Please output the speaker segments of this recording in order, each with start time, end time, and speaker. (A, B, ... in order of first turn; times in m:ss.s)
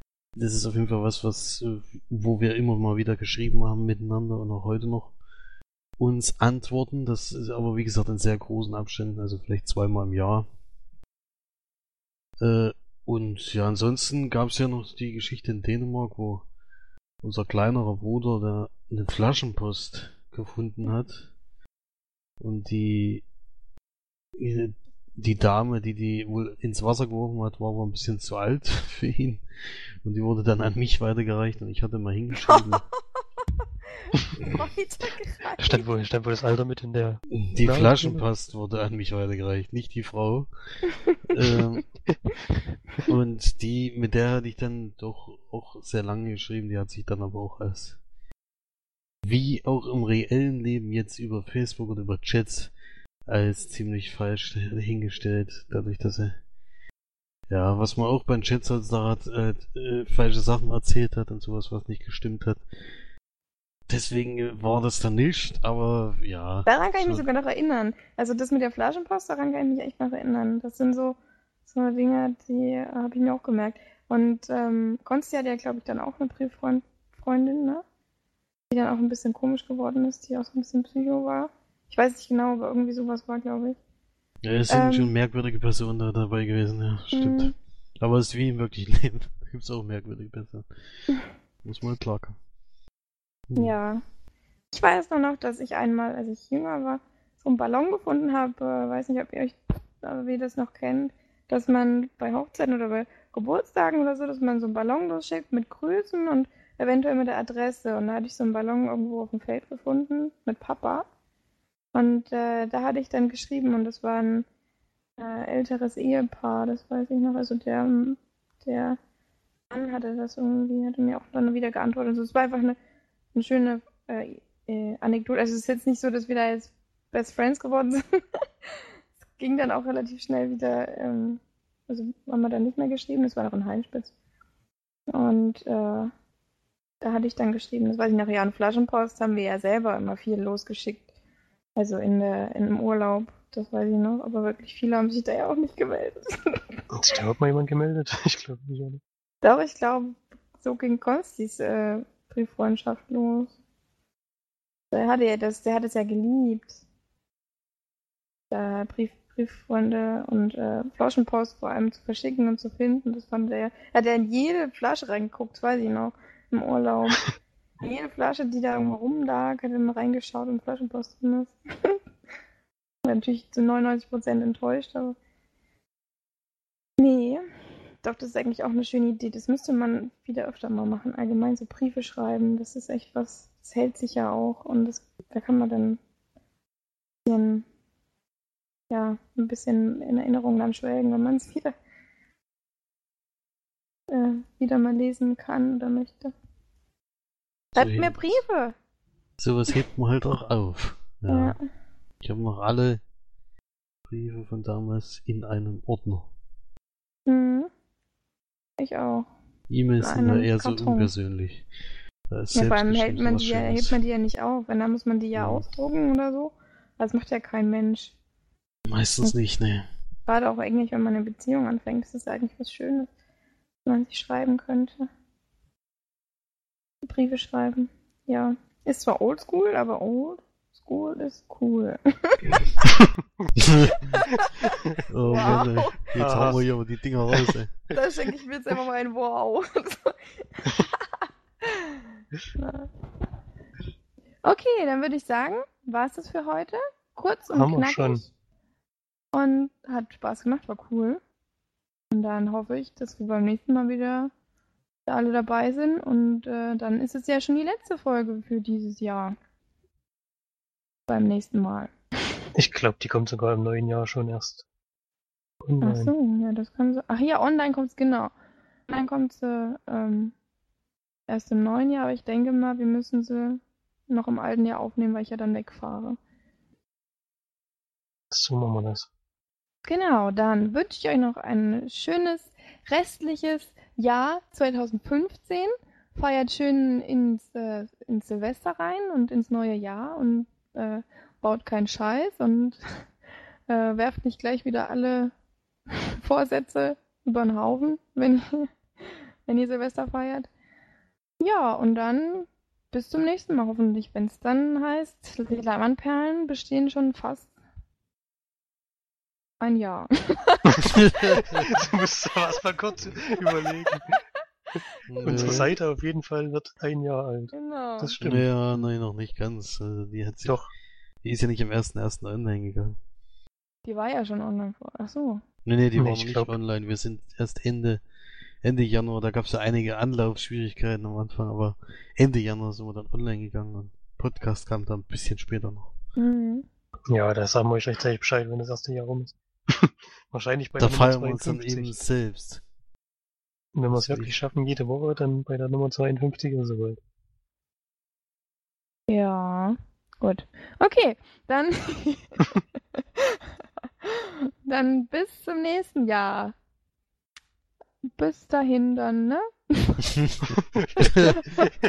0:00.4-0:05.1 A
0:06.0-0:10.5 A
0:12.4-0:16.5 A
0:17.2-0:21.3 A
0:22.4-0:23.2 A
0:24.4-0:29.4 A
0:30.0-0:32.8 A
0:34.4-0:35.8 B
0:35.6-0:38.2 C
0:37.3-0:40.5 A
0:41.2-0:41.8 A
0:43.0-0:48.0 A
0:49.2-0:52.7 A
0:53.3-0:56.4 A
0:57.5-1:02.6 A
1:03.9-1:07.2 A
1:06.6-1:17.8 B
1:18.7-1:23.8 B
1:24.4-1:30.6 A
1:24.7-1:25.1 B
1:27.1-1:27.5 B
1:31.6-1:32.4 A
1:33.5-1:33.7 A
1:33.5-1:34.0 B
1:34.7-1:51.1 B
1:51.9-1:54.4 B
1:55.2-1:59.0 B
1:59.7-2:02.8 B
2:03.3-2:08.0 B
2:09.4-2:14.1 B
2:15.1-2:16.1 B
2:17.0-2:21.0 B
2:21.8-2:26.7 B
2:26.9-2:29.0 C
2:29.4-2:33.5 B
2:34.9-2:36.8 B
2:38.5-2:47.2 B
2:47.8-2:52.0 B
2:53.0-2:55.2 B
2:57.0-2:57.4 B
2:58.0-3:06.0 B
3:07.2-3:07.6 B
3:08.9-3:11.7 B
3:14.1-3:16.3 B
3:17.7-3:18.7 B
3:17.8-3:18.4 A
3:19.4-3:21.6 A
3:21.3-3:21.6 B
3:22.2-3:23.0 A
3:24.0-3:26.3 A
3:27.2-3:27.7 B
3:28.8-3:29.3 B
3:29.7-3:31.7 A
3:30.0-3:31.1 B
3:32.3-3:34.0 A
3:32.5-3:38.1 B
3:35.3-3:35.7 A
3:38.9-3:39.8 A
3:40.3-3:43.1 B
3:43.8-3:45.1 B
3:47.0-3:52.6 B
3:53.6-3:54.0 A
3:55.1-3:57.8 A
3:55.2-3:56.1 B
3:56.2-3:56.6 C
3:57.9-4:01.1 B
4:01.6-4:02.9 B
4:04.4-4:08.3 B
4:07.5-4:08.2 C
4:09.3-4:11.2 B
4:12.1-4:14.3 B
4:15.0-4:19.4 B
4:21.1-4:21.9 B
4:22.5-4:24.6 C
4:25.6-4:26.1 C
4:25.8-4:28.3 B
4:28.9-4:30.3 B
4:31.3-4:36.2 B
4:38.3-4:39.1 C
4:39.8-4:53.0 B
4:53.7-4:55.3 B
4:55.9-5:00.5 B
5:01.4-5:07.5 B
5:09.6-5:10.8 B
5:10.9-5:11.7 A
5:11.5-5:14.1 C
5:15.1-5:15.7 A
5:15.2-5:18.4 C
5:17.5-5:18.2 B
5:18.2-5:20.6 A
5:20.4-5:20.7 C
5:21.2-5:23.0 A
5:23.8-5:25.4 B
5:25.6-5:28.0 A
5:26.0-5:26.5 C
5:28.6-5:35.9 A
5:36.2-5:36.6 B
5:37.1-5:41.9 C
5:40.8-5:42.6 A
5:43.7-5:47.0 C
5:43.9-5:44.4 A
5:49.1-5:52.4 B
5:54.0-5:56.5 B
5:58.1-6:00.0 B
6:00.1-6:01.4 A